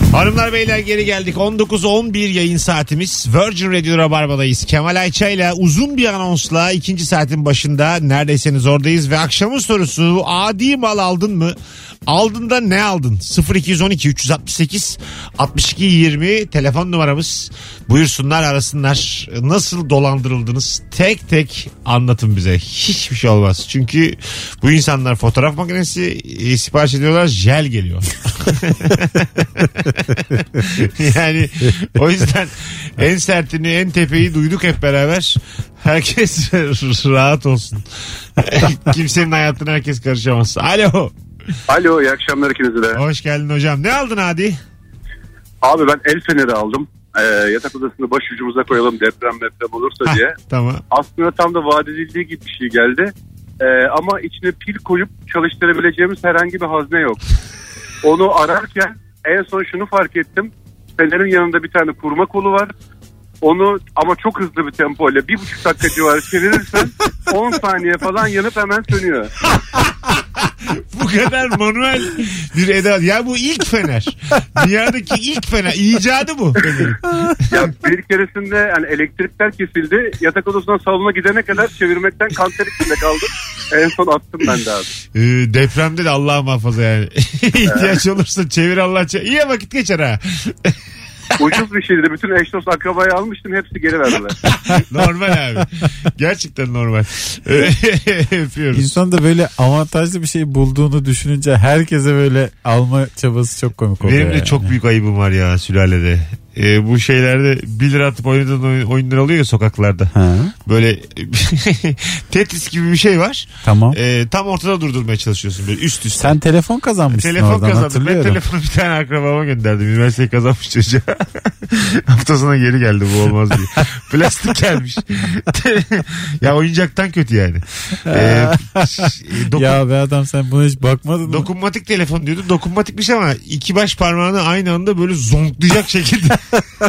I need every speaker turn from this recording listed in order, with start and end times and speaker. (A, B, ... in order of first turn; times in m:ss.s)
0:00.1-0:41.2 A
0:41.7-0:43.0 B
0:42.9-0:44.6 A
0:45.6-0:50.4 B
0:50.1-0:50.8 A
0:50.9-0:57.2 B
0:58.0-1:02.7 B
1:03.4-1:09.3 B
1:09.7-1:17.0 A
1:17.5-1:24.9 B
1:25.2-1:30.8 A
1:27.7-1:28.0 B
1:31.4-1:34.4 B
1:34.5-1:39.0 A
1:38.7-1:44.7 C
1:44.0-1:50.1 A
1:50.1-1:50.5 C
1:50.6-1:56.4 A
1:53.6-1:54.0 C
1:56.2-1:58.4 C
1:57.1-2:09.8 A
2:08.1-2:11.5 C
2:11.2-2:16.6 A